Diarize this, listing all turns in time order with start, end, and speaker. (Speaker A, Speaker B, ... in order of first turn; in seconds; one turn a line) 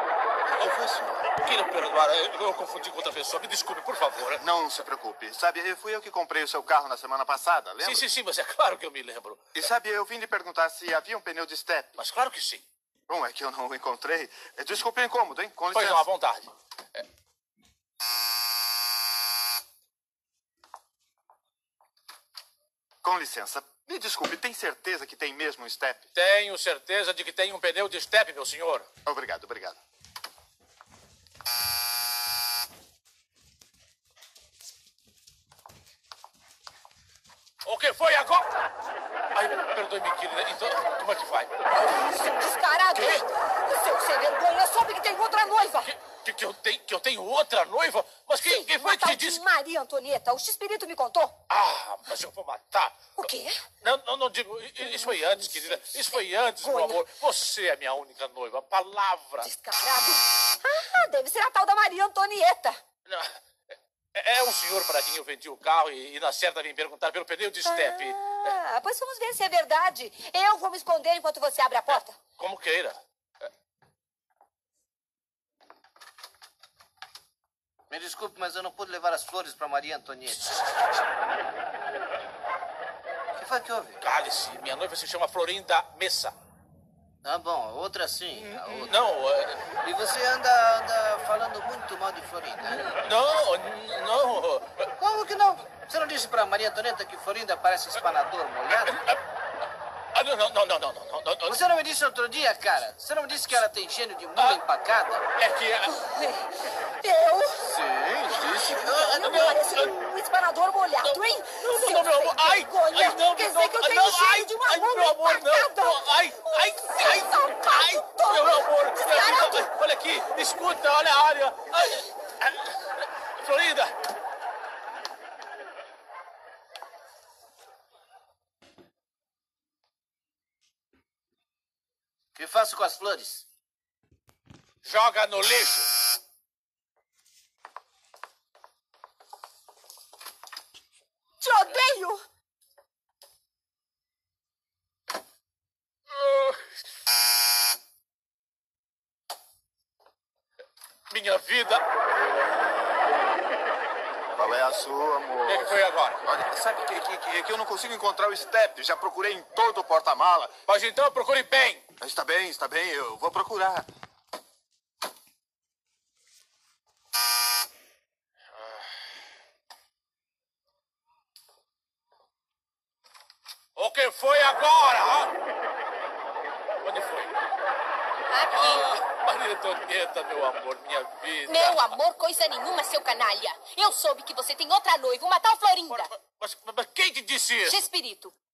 Speaker A: 0.5-1.2
Speaker B: 1.3-4.4
Speaker A: 4.3-8.1
Speaker B: 7.8-9.6
Speaker A: 9.5-11.9
Speaker B: 12.0-12.6
Speaker A: 13.1-16.1
Speaker B: 15.7-17.0
Speaker A: 23.0-26.1
Speaker B: 26.1-28.9
Speaker A: 29.0-29.8
Speaker B: 37.6-38.4
Speaker B: 39.3-41.5
Speaker C: 41.7-45.9
Speaker B: 42.9-43.2
Speaker B: 45.8-49.4
Speaker C: 48.4-51.3
Speaker B: 51.5-53.3
Speaker C: 53.2-53.6
Speaker B: 53.8-59.5
Speaker C: 54.8-57.0
Speaker C: 59.4-62.8
Speaker B: 63.1-63.4
Speaker B: 64.1-68.5
Speaker C: 67.6-72.2
Speaker B: 71.9-73.0
Speaker D: 77.9-80.6
Speaker D: 83.3-84.0
Speaker B: 84.0-86.3
Speaker D: 87.2-89.0
Speaker B: 88.3-89.6
Speaker D: 89.8-93.0
Speaker B: 92.7-94.9
Speaker D: 95.0-99.0
Speaker B: 98.7-99.2
Speaker B: 100.1-101.6
Speaker D: 101.5-105.2
Speaker B: 105.4-106.0
Speaker C: 105.9-107.6
Speaker B: 108.2-110.0
Speaker C: 108.5-119.7
Speaker B: 111.0-123.9
Speaker D: 132.3-133.4
Speaker B: 134.8-135.9
Speaker C: 141.4-142.2
Speaker B: 146.2-146.5
Speaker B: 151.1-151.8
Speaker A: 152.1-153.0
Speaker A: 154.3-160.5
Speaker B: 155.4-156.2
Speaker B: 160.7-161.8
Speaker A: 162.0-163.9
Speaker B: 173.8-175.3
Speaker B: 176.8-177.3
Speaker E: 178.3-178.9
Speaker B: 178.5-182.0
Speaker E: 181.4-186.1
Speaker B: 185.9-187.8
Speaker E: 187.6-188.3